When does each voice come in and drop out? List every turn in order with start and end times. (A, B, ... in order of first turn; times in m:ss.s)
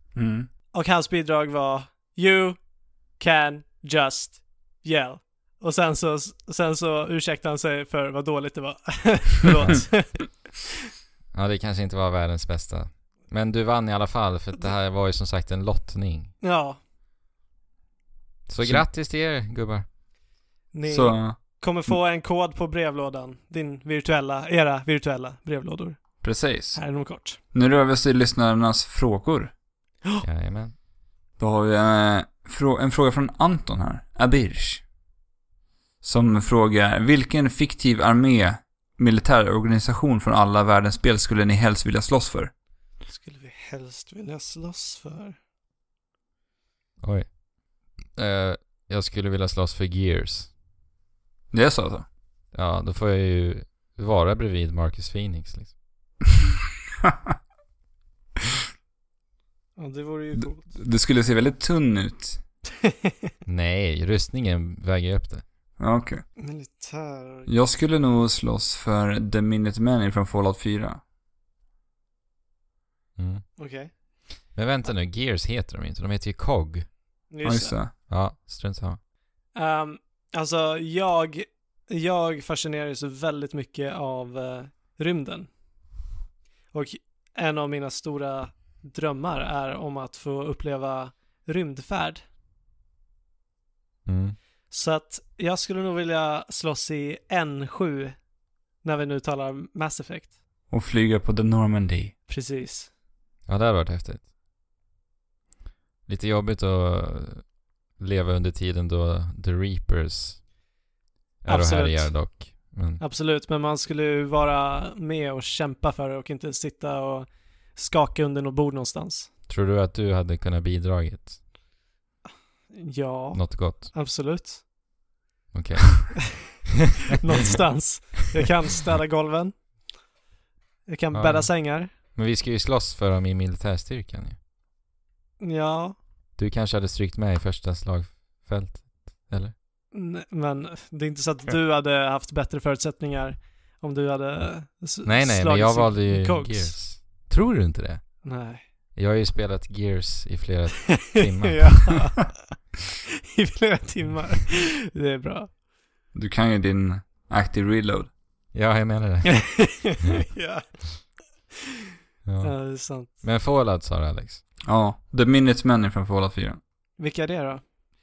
0:00.2-0:00.5 A
0:00.7-0:10.4 B
0:11.3-0:16.3 C
0:16.4-0:16.8 B
0:18.5-0:19.8 C
0:20.7-0:27.4 B
0:20.9-0:21.9 A
0:26.2-0:29.5 A
0:30.2-0:30.8 C
0:31.4-0:34.8 A
0:36.0-0:42.5 A
0:43.1-0:45.4 B
0:47.0-0:50.5 C
0:51.5-0:52.1 A
0:52.5-0:55.8 C
0:59.8-1:00.7 B
1:00.4-1:02.4 A
1:03.4-1:05.4 C
1:05.8-1:06.2 A
1:06.4-1:07.5 B
1:07.5-1:11.0 A
1:13.2-1:13.5 C
1:13.6-1:13.9 B
1:14.5-1:16.9 C
1:17.3-1:17.8 B
1:17.4-1:17.9 A
1:18.1-1:19.0 C
1:19.5-1:25.5 B
1:26.7-1:32.2 B
1:34.1-1:34.4 C
1:34.7-1:38.2 B
1:38.8-1:40.4 B
1:40.7-1:42.2 A
1:42.3-1:42.9 B
1:43.5-1:44.3 C
1:46.1-1:50.5 C
1:51.4-1:53.0 C
1:51.4-1:52.5 B
1:53.0-1:59.3 B
1:59.5-2:01.4 C
2:02.7-2:04.6 B
2:03.3-2:03.9 C
2:05.5-2:06.6 C
2:07.2-2:09.8 B
2:10.9-2:11.9 B
2:11.1-2:14.4 C
2:15.4-2:16.0 B
2:16.4-2:19.5 C
2:19.9-2:26.8 B
2:25.0-2:28.3 C
2:28.2-2:28.6 B
2:29.0-2:31.8 C
2:31.0-2:32.5 B
2:33.3-2:35.5 B
2:36.1-2:38.1 A
2:38.5-2:39.7 C
2:39.4-2:41.2 B
2:42.2-2:44.4 C
2:42.4-2:43.1 B
2:44.7-2:46.6 A
2:47.0-2:47.6 B